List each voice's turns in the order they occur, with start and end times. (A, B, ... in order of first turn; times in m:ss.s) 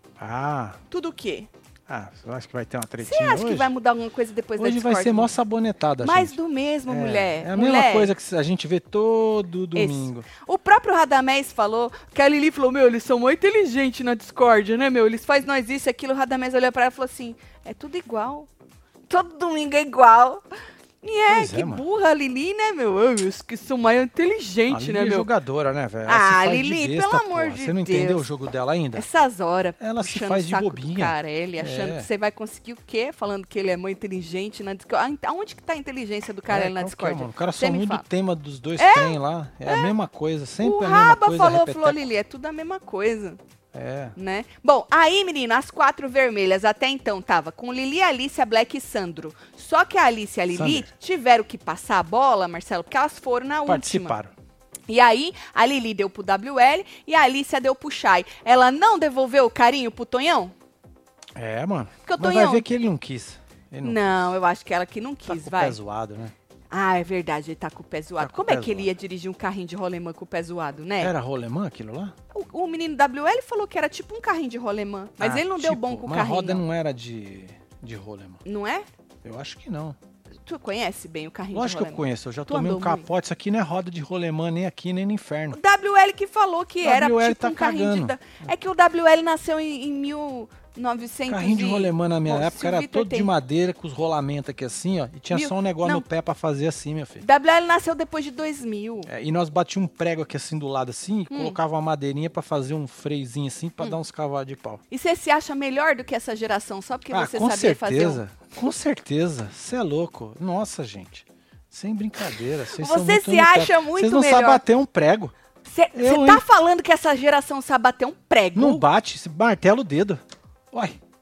0:00.2-0:00.8 A
0:00.9-0:01.5 B
0:01.9-0:03.7 A
0:03.0-0:05.4 B
0:04.6-0:10.3 A
0:06.0-0:08.1 B
0:09.8-0:18.5 B
0:19.1-0:20.4 B
0:21.0-0:25.3 B
0:21.3-0:21.8 A
0:24.7-0:29.1 A
0:26.1-0:28.3 B
0:29.0-0:38.0 B
0:29.8-0:32.1 A
0:36.5-0:42.0 A
0:38.8-0:39.9 B
0:40.6-0:43.4 B
0:43.7-0:44.2 A
0:44.2-0:54.2 B
0:50.5-0:50.9 A
0:53.7-0:54.3 A
0:54.9-1:00.5 B
1:01.4-1:04.3 A
1:02.0-1:02.7 B
1:03.8-1:05.8 B
1:05.3-1:06.3 A
1:06.7-1:11.1 B
1:08.2-1:08.9 A
1:11.0-1:12.2 A
1:12.3-1:16.6 B
1:15.2-1:18.4 A
1:18.4-1:18.9 B
1:19.2-1:20.0 A
1:20.4-1:23.1 B
1:21.5-1:25.6 A
1:25.5-1:33.3 B
1:26.8-1:28.2 A
1:31.3-1:37.2 A
1:35.3-1:36.1 B
1:37.2-1:39.1 B
1:39.1-1:44.8 A
1:41.3-1:41.6 B
1:44.9-1:48.2 B
1:47.1-1:55.3 A
1:52.7-1:54.6 B
1:55.6-1:58.8 B
1:55.9-1:56.4 A
1:58.6-2:01.0 A